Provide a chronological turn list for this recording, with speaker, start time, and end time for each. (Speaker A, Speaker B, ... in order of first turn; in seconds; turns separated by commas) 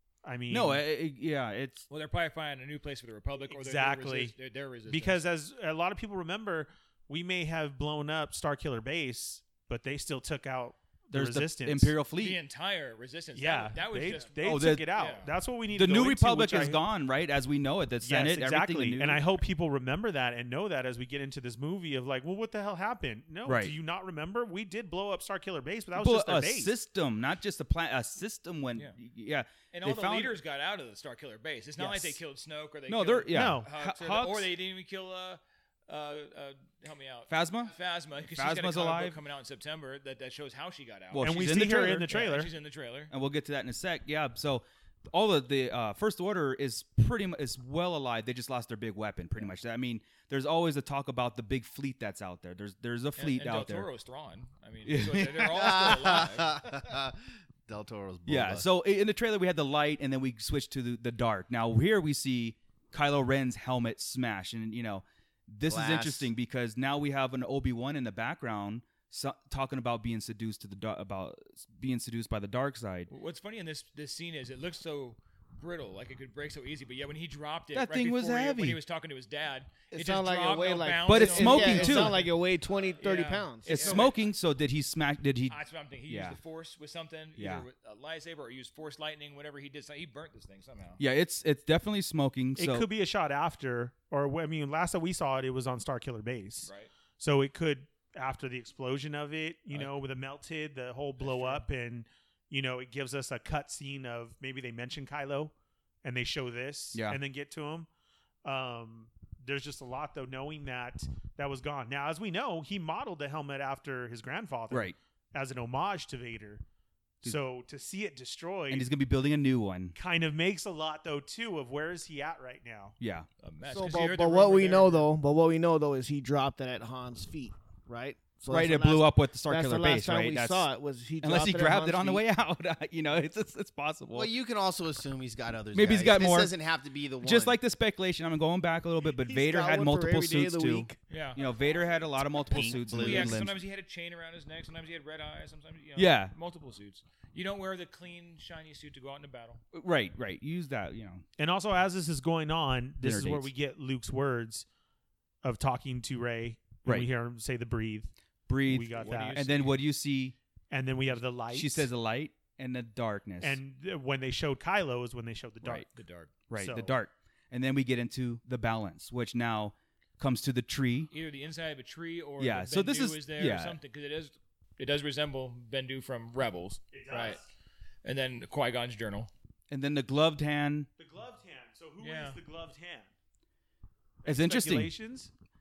Speaker A: 0.2-0.8, Speaker B: 0.5-1.8, Speaker C: 1.9-5.2, Speaker A: 3.5-4.3, Speaker A: 4.9-11.9, Speaker B: 11.1-12.4, Speaker C: 12.2-14.4, Speaker A: 13.3-16.8, Speaker B: 14.4-15.0, Speaker C: 14.9-15.3, Speaker B: 15.7-19.3, Speaker A: 18.0-26.7, Speaker B: 23.4-23.7, Speaker B: 25.9-30.4, Speaker C: 29.7-41.3, Speaker B: 31.8-32.2, Speaker B: 32.9-34.5, Speaker A: 33.3-33.7, Speaker B: 37.3-37.7, Speaker B: 38.3-39.2, Speaker B: 41.1-42.2, Speaker A: 41.2-42.5, Speaker C: 42.1-43.1, Speaker B: 43.1-53.9, Speaker C: 53.1-56.5, Speaker B: 54.9-55.9, Speaker D: 55.5-58.7, Speaker B: 58.3-73.1, Speaker D: 65.7-66.3, Speaker C: 73.1-82.3, Speaker B: 77.7-78.8, Speaker E: 79.9-84.1, Speaker B: 81.0-82.2, Speaker C: 83.0-84.3, Speaker B: 83.7-86.4, Speaker C: 85.5-91.0, Speaker B: 87.4-87.7, Speaker B: 91.0-92.9, Speaker A: 92.6-96.7, Speaker C: 96.6-96.9, Speaker A: 97.2-105.5, Speaker C: 101.2-101.6, Speaker A: 106.0-107.9, Speaker A: 108.4-116.6, Speaker B: 114.7-115.0, Speaker A: 117.2-118.9, Speaker B: 118.7-119.9, Speaker A: 119.9-123.0, Speaker B: 123.0-123.3, Speaker C: 123.4-125.1, Speaker E: 123.7-132.2, Speaker B: 128.5-130.7, Speaker B: 131.2-134.3, Speaker D: 134.1-137.6, Speaker B: 135.7-136.5, Speaker B: 137.2-143.5, Speaker E: 139.3-141.0, Speaker C: 141.1-141.4, Speaker D: 142.5-143.5, Speaker C: 142.6-149.6, Speaker B: 145.9-146.3, Speaker B: 149.7-151.2, Speaker A: 151.4-154.6, Speaker B: 153.0-153.5, Speaker A: 155.4-158.1, Speaker B: 158.5-160.3, Speaker A: 158.6-159.4, Speaker C: 158.9-159.8, Speaker A: 160.7-161.9, Speaker B: 161.5-163.6, Speaker A: 163.4-165.8, Speaker C: 165.9-166.3, Speaker B: 166.5-171.1, Speaker A: 166.6-166.9, Speaker C: 171.1-177.4, Speaker B: 172.4-173.8, Speaker A: 176.9-177.4, Speaker C: 178.0-179.3, Speaker B: 179.7-180.9, Speaker A: 181.0-183.1, Speaker C: 182.0-182.4, Speaker A: 184.2-185.3, Speaker B: 184.2-184.9